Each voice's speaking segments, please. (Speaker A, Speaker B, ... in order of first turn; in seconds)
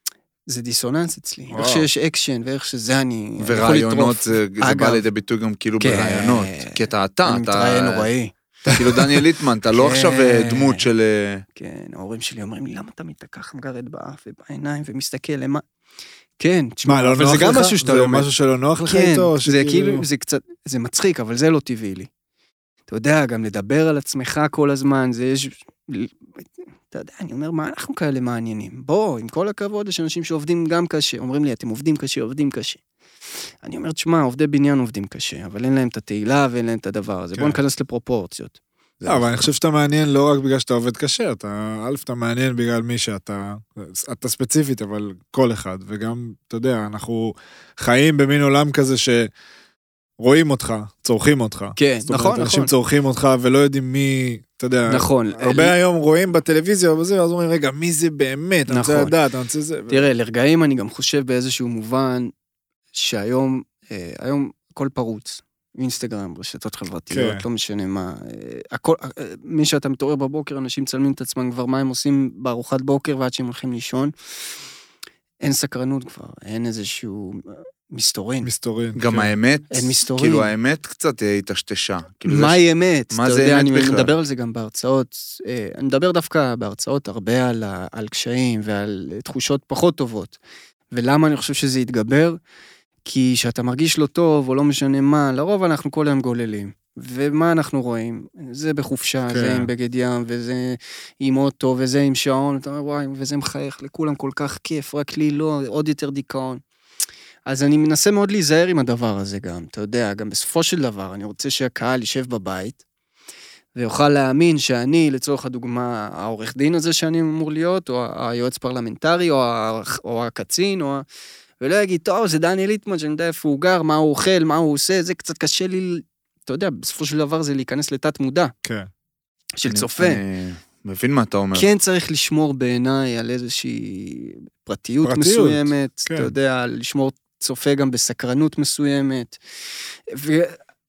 Speaker A: 0.5-5.0, 5.8-8.8, 9.7-10.9, 11.6-15.6, 16.4-18.3, 18.9-22.1, 22.9-32.8, 33.6-38.6, 51.8-52.7, 54.9-55.8, 58.7-59.2, 59.9-62.3, 62.9-74.1, 75.4-78.5, 79.7-80.5, 82.2-90.4, 90.9-92.4, 93.0-106.6, 107.5-112.8, 113.8-121.0, 121.6-128.5, 129.6-130.2, 131.5-139.4, 140.1-140.6
Speaker B: 1.5-1.9, 16.9-20.1, 39.1-49.3, 50.2-60.0, 67.1-67.5, 78.4-79.3, 99.3-99.7, 128.6-128.9, 135.0-136.3
Speaker C: 3.4-8.1, 8.7-11.4, 39.0-39.5, 79.0-82.6, 83.1-84.1, 129.7-131.7